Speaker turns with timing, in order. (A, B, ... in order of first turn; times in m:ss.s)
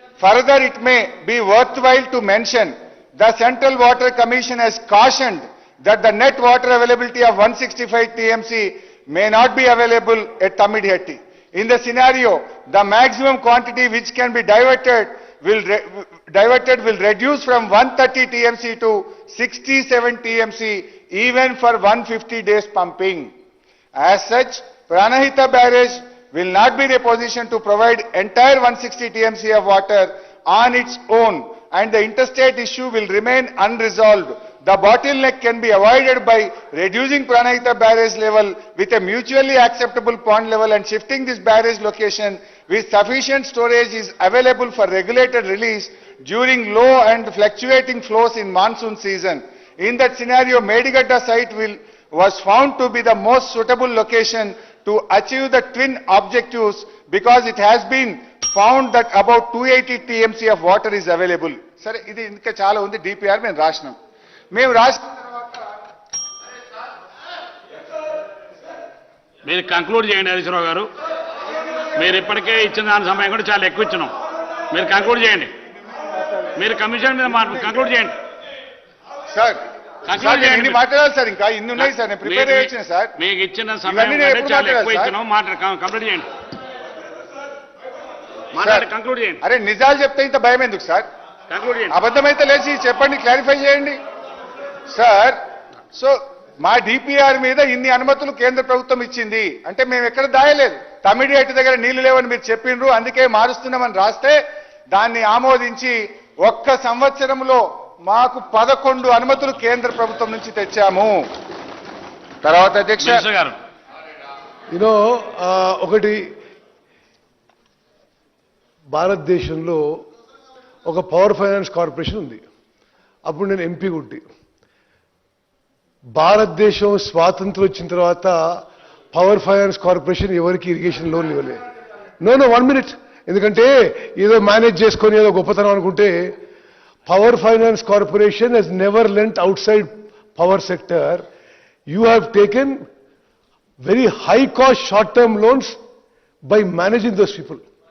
0:00.2-0:23.3 A
0:24.0-1:04.0 A
1:04.5-1:05.1 A
1:09.4-1:10.9 B
1:12.0-1:14.1 B
1:14.7-1:15.5 B
1:16.6-1:18.2 B
1:19.3-1:23.1 A
1:20.1-1:20.8 B
1:21.8-1:26.3 B
1:23.9-1:25.1 A
1:28.6-1:29.4 B
1:28.6-1:28.9 A
1:29.4-1:31.1 A
1:31.5-1:32.0 B
1:31.9-1:34.0 A
1:34.9-1:35.4 A
1:35.9-1:44.4 A
1:44.9-1:51.2 A
1:52.4-1:53.2 A
1:53.0-1:53.6 B
1:54.7-1:56.2 C
1:58.9-1:59.8 C
2:00.8-2:02.4 C
2:03.3-2:04.2 C
2:06.1-2:11.6 C
2:12.2-2:16.4 C
2:17.1-2:21.3 C
2:21.9-2:22.8 C
2:23.8-2:25.8 C
2:26.5-2:27.6 C